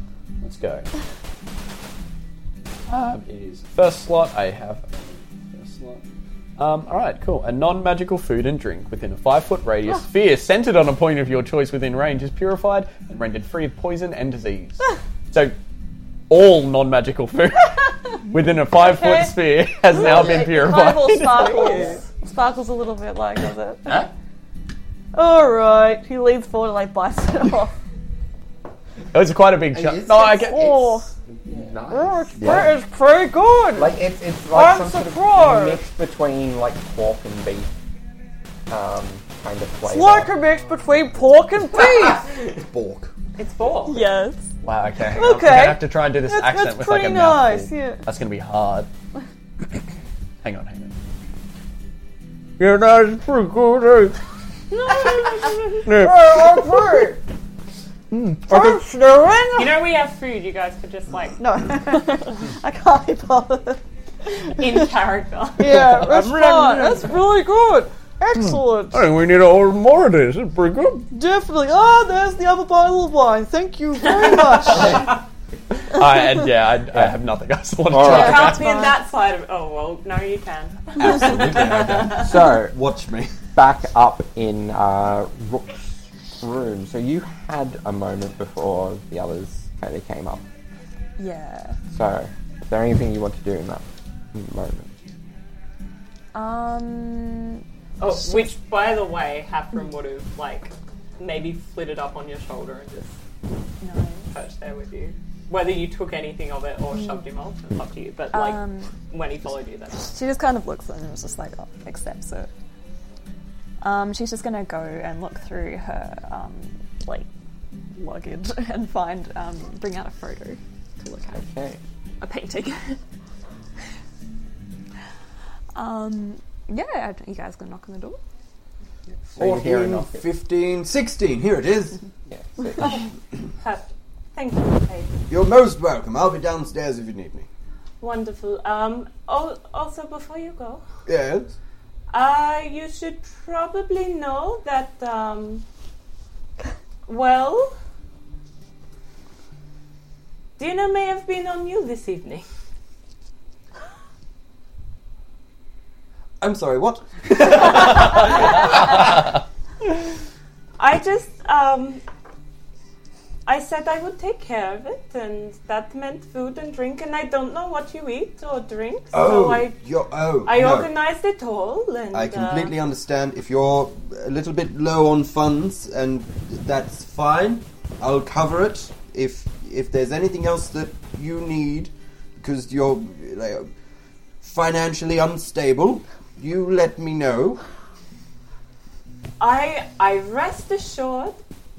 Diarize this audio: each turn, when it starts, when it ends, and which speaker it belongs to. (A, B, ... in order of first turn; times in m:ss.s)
0:00.4-0:00.9 A
0:02.9-0:06.0 A
0:06.6-0:15.6 A
0:16.3-0:21.9 A
0:18.8-0:19.3 B
0:19.9-0:24.1 B
0:21.6-0:21.9 C
0:25.1-0:27.7 B
0:29.1-0:31.7 A
0:29.7-0:30.4 C
0:30.1-0:31.1 B
0:31.4-0:32.7 C
0:31.9-0:35.8 B
0:33.7-0:37.7 C
0:38.7-0:40.3 C
0:39.8-0:42.3 B
0:41.8-0:43.1 D
0:43.4-0:44.1 E
0:43.9-0:44.4 B
0:43.9-0:44.2 F
0:44.6-0:48.9 A
0:45.1-0:48.0 B
0:50.4-0:50.9 A
0:52.6-0:54.2 A
0:54.9-0:55.6 B
0:55.8-0:57.1 A
0:56.0-0:57.2 C
0:58.1-0:59.5 A
0:58.5-0:58.9 B
0:59.6-1:01.4 E
1:01.4-1:03.8 B
1:04.4-1:05.7 E
1:05.6-1:09.0 B
1:05.7-1:07.1 A
1:08.4-1:11.1 A
1:11.1-1:15.1 B
1:15.8-1:18.6 A
1:17.9-1:18.4 C
1:18.0-1:22.2 E
1:18.1-1:18.7 B
1:21.0-1:23.4 D
1:22.0-1:22.8 C
1:23.5-1:30.4 C
1:31.2-1:31.8 F
1:31.9-1:34.9 C
1:36.3-1:37.6 F
1:38.0-1:43.2 E
1:38.2-1:38.5 F
1:43.8-1:44.3 F
1:44.3-1:50.1 E
1:46.9-1:47.2 F
1:48.3-1:48.9 F
1:50.0-1:52.5 F
1:53.8-1:57.3 F
1:57.9-2:01.4 F
2:01.3-2:01.8 C
2:02.2-2:03.0 F
2:05.7-2:08.2 F
2:09.3-2:12.0 D
2:09.4-2:10.2 C
2:12.3-2:13.0 C
2:12.8-2:13.1 E
2:13.6-2:15.2 E
2:15.3-2:17.4 D
2:18.0-2:20.8 E
2:21.0-2:21.5 D
2:22.1-2:25.6 E
2:27.1-2:27.7 E
2:30.6-2:32.4 E
2:36.4-2:39.1 D
2:40.8-2:42.0 E
2:43.4-2:49.7 E
2:49.1-2:50.9 D
2:50.4-2:52.7 E
2:52.1-3:03.7 D
3:04.4-3:07.6 D
3:09.4-3:11.4 E